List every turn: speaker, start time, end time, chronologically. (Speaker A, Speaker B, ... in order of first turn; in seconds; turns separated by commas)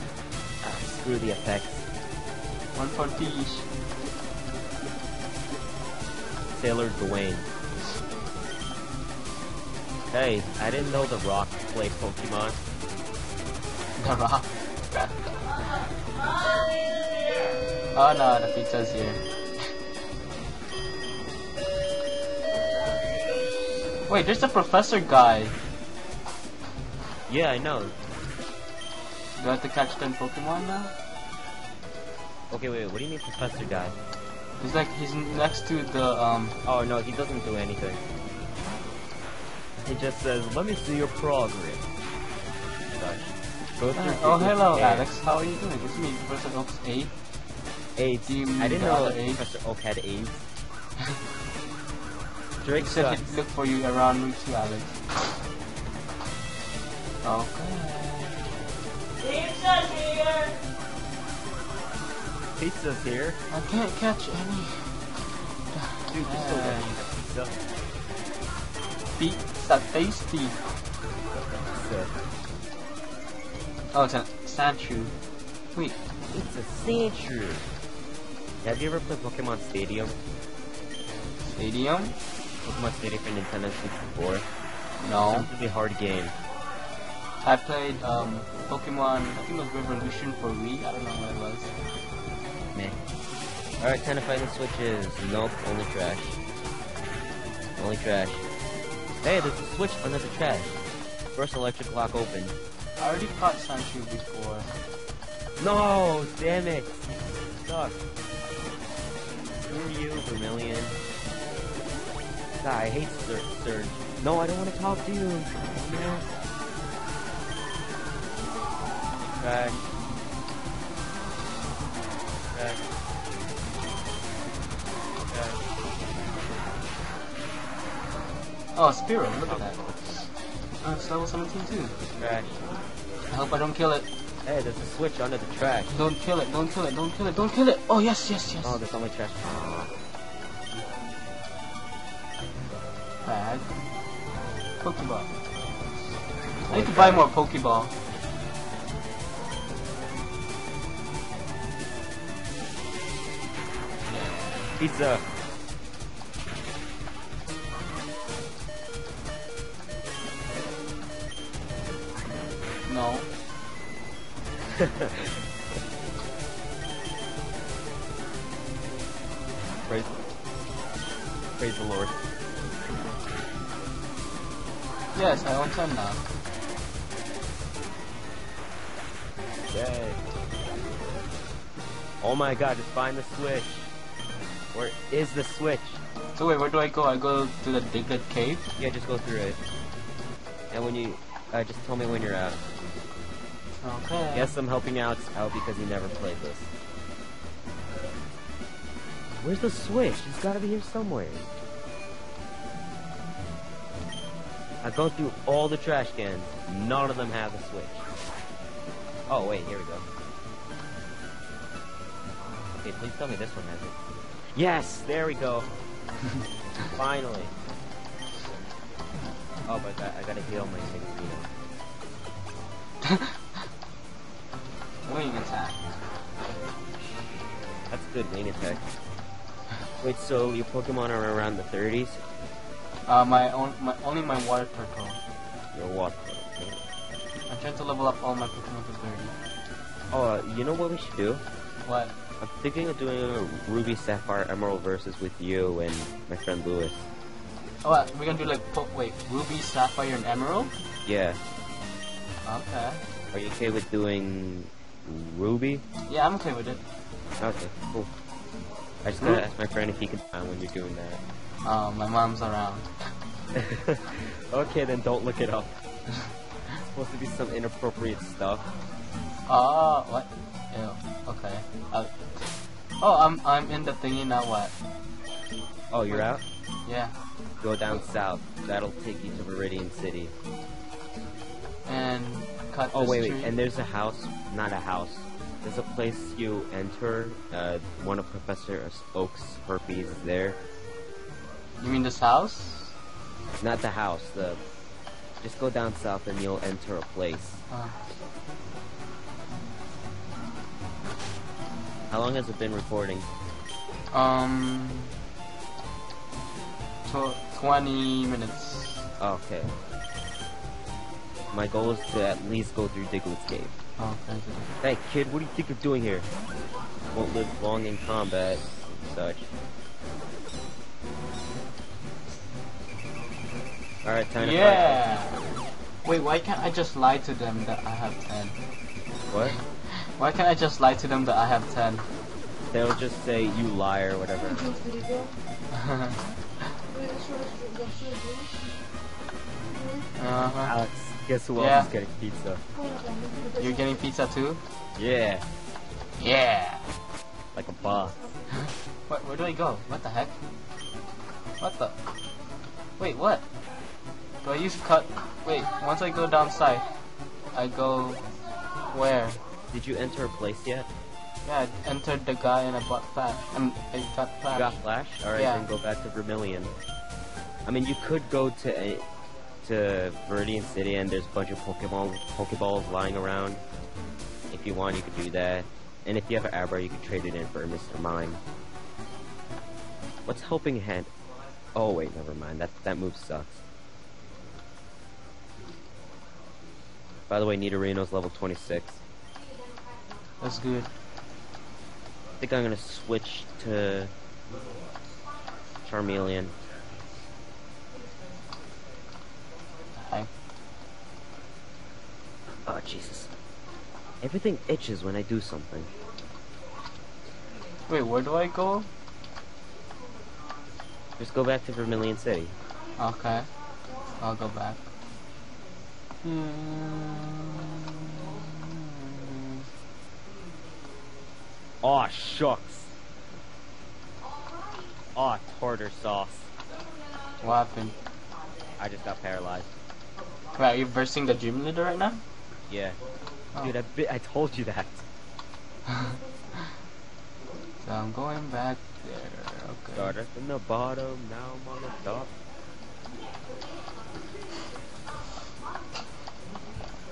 Speaker A: 0.6-1.8, Speaker B: 2.7-3.7, Speaker A: 6.5-7.5, Speaker A: 10.1-12.6, Speaker B: 14.0-15.1, Speaker B: 17.9-19.2, Speaker B: 24.1-25.6, Speaker A: 27.3-27.9, Speaker B: 29.4-30.9, Speaker A: 32.5-34.0, Speaker B: 34.6-36.5, Speaker A: 36.6-38.0, Speaker A: 39.8-41.9, Speaker A: 42.9-45.1, Speaker B: 43.9-47.1, Speaker A: 48.0-50.4, Speaker B: 48.3-49.4, Speaker A: 52.6-53.3, Speaker B: 52.8-55.0, Speaker B: 57.2-58.4, Speaker B: 59.2-60.5, Speaker A: 62.6-63.4, Speaker B: 63.5-65.0, Speaker B: 65.7-67.0, Speaker A: 66.0-67.6, Speaker B: 69.2-70.5, Speaker A: 71.7-72.1, Speaker B: 73.9-75.1, Speaker A: 76.3-77.7, Speaker A: 78.6-80.2, Speaker B: 81.5-82.2, Speaker A: 82.6-84.5, Speaker B: 85.0-85.5, Speaker A: 85.2-86.3, Speaker B: 87.4-91.7, Speaker A: 92.7-93.0, Speaker A: 93.8-96.4, Speaker A: 97.8-98.4, Speaker A: 99.2-100.8, Speaker A: 101.3-102.5, Speaker B: 103.0-104.7, Speaker A: 105.6-108.0, Speaker A: 109.7-111.0, Speaker A: 112.6-116.3, Speaker A: 119.3-119.9, Speaker A: 122.5-122.8, Speaker A: 125.2-125.6, Speaker B: 128.8-130.2, Speaker A: 129.5-130.0, Speaker B: 130.8-131.9, Speaker A: 132.2-132.5, Speaker B: 133.3-134.1, Speaker A: 134.4-135.9, Speaker B: 135.9-138.8, Speaker A: 138.6-139.9, Speaker B: 143.2-143.7, Speaker B: 144.8-145.3, Speaker A: 146.7-147.3, Speaker B: 146.7-147.9, Speaker B: 154.1-154.7, Speaker A: 154.8-155.2, Speaker B: 162.8-163.3, Speaker A: 164.7-165.4, Speaker A: 169.8-170.2, Speaker A: 171.6-172.1, Speaker B: 175.1-176.2, Speaker A: 179.7-180.2, Speaker A: 182.2-183.9, Speaker A: 184.7-186.0, Speaker B: 186.3-188.7, Speaker A: 188.8-189.6, Speaker A: 190.7-192.6, Speaker B: 193.8-194.5, Speaker A: 194.3-196.7, Speaker A: 199.4-201.5, Speaker A: 204.8-208.0, Speaker A: 209.3-210.0, Speaker A: 212.8-214.0, Speaker A: 214.5-215.7, Speaker A: 216.9-217.5, Speaker A: 219.7-221.5, Speaker B: 223.0-223.3, Speaker B: 225.1-225.8, Speaker A: 227.9-228.8, Speaker A: 230.0-232.2, Speaker B: 233.1-235.2, Speaker A: 235.7-236.8, Speaker B: 237.5-239.3, Speaker A: 240.1-241.4, Speaker B: 241.8-242.2, Speaker A: 242.4-247.1, Speaker B: 247.8-250.7, Speaker A: 251.0-251.4, Speaker B: 252.4-253.0, Speaker A: 253.3-255.8, Speaker B: 256.1-256.8, Speaker A: 257.4-258.1, Speaker A: 259.0-261.2, Speaker B: 259.2-259.4, Speaker B: 261.6-262.9, Speaker A: 263.5-265.7, Speaker A: 266.8-268.7, Speaker B: 269.5-272.3, Speaker B: 273.0-274.7, Speaker A: 275.9-276.4, Speaker B: 276.9-277.1, Speaker A: 277.6-280.3, Speaker B: 281.9-283.5, Speaker A: 282.9-290.6, Speaker B: 291.8-292.9, Speaker A: 293.6-294.6, Speaker A: 295.4-297.6, Speaker B: 297.7-297.9, Speaker A: 302.1-303.3, Speaker B: 304.1-305.1, Speaker B: 307.0-309.1, Speaker A: 309.2-309.8, Speaker A: 311.5-313.7, Speaker B: 314.0-314.7, Speaker A: 314.8-316.3, Speaker A: 317.1-319.5, Speaker A: 324.0-325.6, Speaker B: 324.4-325.4, Speaker B: 326.0-328.6, Speaker A: 329.3-329.5, Speaker B: 329.9-332.1, Speaker A: 332.7-335.0, Speaker B: 335.7-336.2, Speaker B: 340.2-340.8, Speaker A: 340.6-342.6, Speaker B: 341.6-341.9, Speaker B: 343.6-344.6, Speaker A: 344.9-345.4, Speaker B: 346.2-346.9, Speaker A: 347.5-348.2, Speaker B: 348.5-350.4, Speaker B: 351.6-351.9, Speaker B: 353.0-353.4, Speaker B: 354.4-356.9, Speaker B: 357.5-358.2, Speaker B: 358.9-359.4, Speaker A: 359.7-360.9, Speaker B: 361.4-364.8, Speaker A: 364.5-366.7, Speaker B: 365.3-365.6, Speaker A: 367.6-369.0, Speaker A: 369.6-373.6, Speaker A: 374.5-378.4, Speaker A: 380.2-381.1, Speaker A: 381.8-383.6, Speaker A: 387.3-389.0, Speaker B: 390.4-390.9, Speaker A: 392.4-394.1, Speaker A: 395.8-396.5, Speaker B: 400.0-400.3, Speaker A: 402.6-403.3, Speaker A: 404.2-405.9, Speaker B: 407.9-408.9, Speaker A: 411.2-412.5, Speaker B: 413.0-413.5, Speaker B: 414.2-414.8, Speaker B: 416.2-419.6, Speaker A: 421.8-422.9, Speaker A: 425.1-426.5, Speaker B: 427.4-427.9, Speaker A: 428.8-429.7, Speaker B: 430.6-432.2, Speaker A: 432.7-433.0, Speaker A: 433.6-435.0, Speaker B: 435.9-436.6, Speaker B: 437.8-440.1, Speaker A: 439.9-442.3